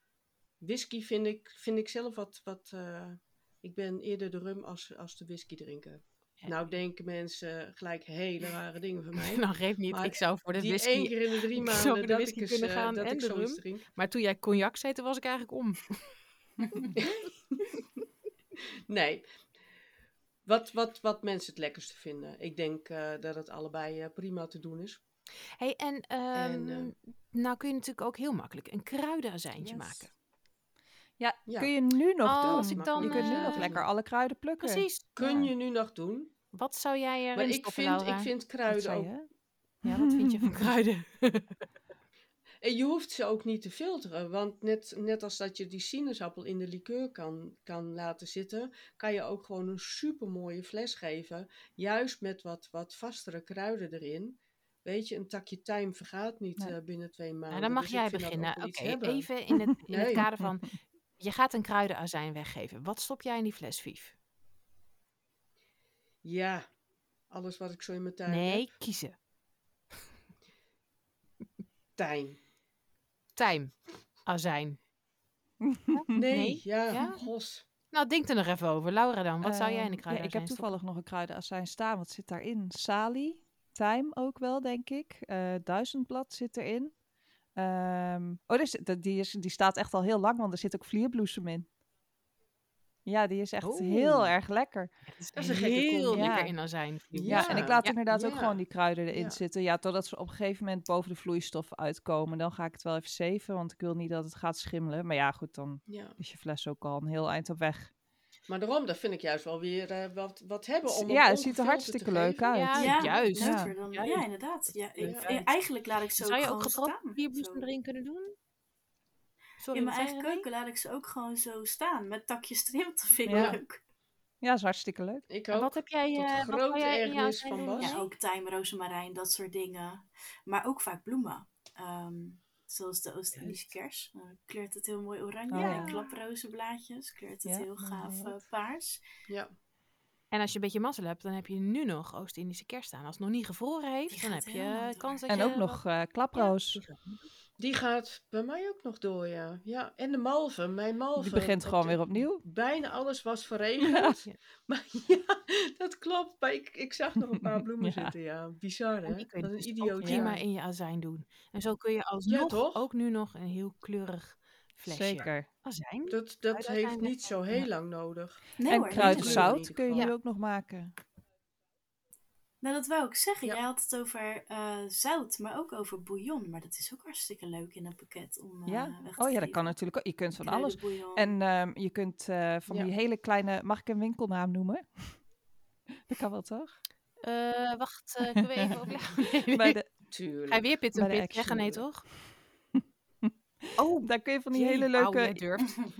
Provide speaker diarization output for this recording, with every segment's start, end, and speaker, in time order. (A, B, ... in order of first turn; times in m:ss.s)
0:00.6-0:13.8 A
0:09.2-0:16.0 B
0:17.0-0:17.5 A
0:18.9-0:19.3 A
0:20.4-0:25.0 A
0:25.6-0:30.1 B
0:26.3-0:26.9 A
0:29.6-0:30.1 C
0:31.2-0:35.4 C
0:31.4-0:31.7 A
0:32.2-0:33.7 B
0:32.2-0:33.8 A
0:34.6-0:35.5 B
0:35.1-0:36.3 A
0:36.5-0:38.3 B
0:37.3-0:39.1 A
0:38.7-0:39.3 C
0:39.8-0:41.6 B
0:39.8-0:40.5 C
0:42.6-0:59.3 A
0:57.5-1:04.1 B
0:59.9-1:00.2 A
1:06.2-1:06.7 A
1:07.3-1:08.7 A
1:08.3-1:09.1 B
1:12.0-1:12.4 A
1:13.4-1:14.8 B
1:15.9-1:17.2 B
1:16.1-1:17.6 A
1:17.8-1:20.8 B
1:19.4-1:27.0 C
1:27.5-1:31.7 C
1:33.0-1:34.9 C
1:33.6-1:34.4 B
1:35.0-1:38.0 B
1:35.4-1:36.5 A
1:36.1-1:36.6 C
1:37.1-1:39.4 A
1:37.2-1:47.9 C
1:45.9-1:46.2 A
1:48.5-1:52.5 A
1:50.9-1:53.7 C
1:52.4-1:58.3 B
1:52.7-1:57.7 D
1:55.0-1:55.3 A
1:59.6-2:00.5 B
1:59.7-2:03.8 D
2:03.3-2:03.6 C
2:03.3-2:03.6 A
2:04.4-2:05.2 C
2:05.3-2:08.0 A
2:05.5-2:08.1 B
2:07.8-2:19.0 D
2:13.3-2:13.7 B
2:15.5-2:15.9 C
2:15.6-2:16.2 B
2:17.4-2:18.3 C
2:19.3-2:19.5 A
2:20.3-2:25.8 B
2:24.1-2:25.2 D
2:25.3-2:26.8 C
2:26.3-2:27.3 B
2:27.6-2:40.4 A
2:31.2-2:32.4 C
2:33.8-2:34.2 C
2:37.8-2:38.1 C
2:39.1-2:47.7 B
2:40.0-2:40.3 C
2:42.2-2:42.9 A
2:44.9-2:45.5 C
2:46.1-2:50.1 A
2:48.6-2:49.6 D
2:48.7-2:50.9 C
2:52.6-2:59.8 D
2:58.7-3:05.3 C
3:00.3-3:01.3 D
3:06.1-3:06.8 C
3:07.2-3:09.8 B
3:09.5-3:09.9 C
3:10.1-3:10.7 A
3:10.5-3:12.1 B
3:11.0-3:12.3 C
3:13.8-3:15.8 B
3:14.0-3:15.4 C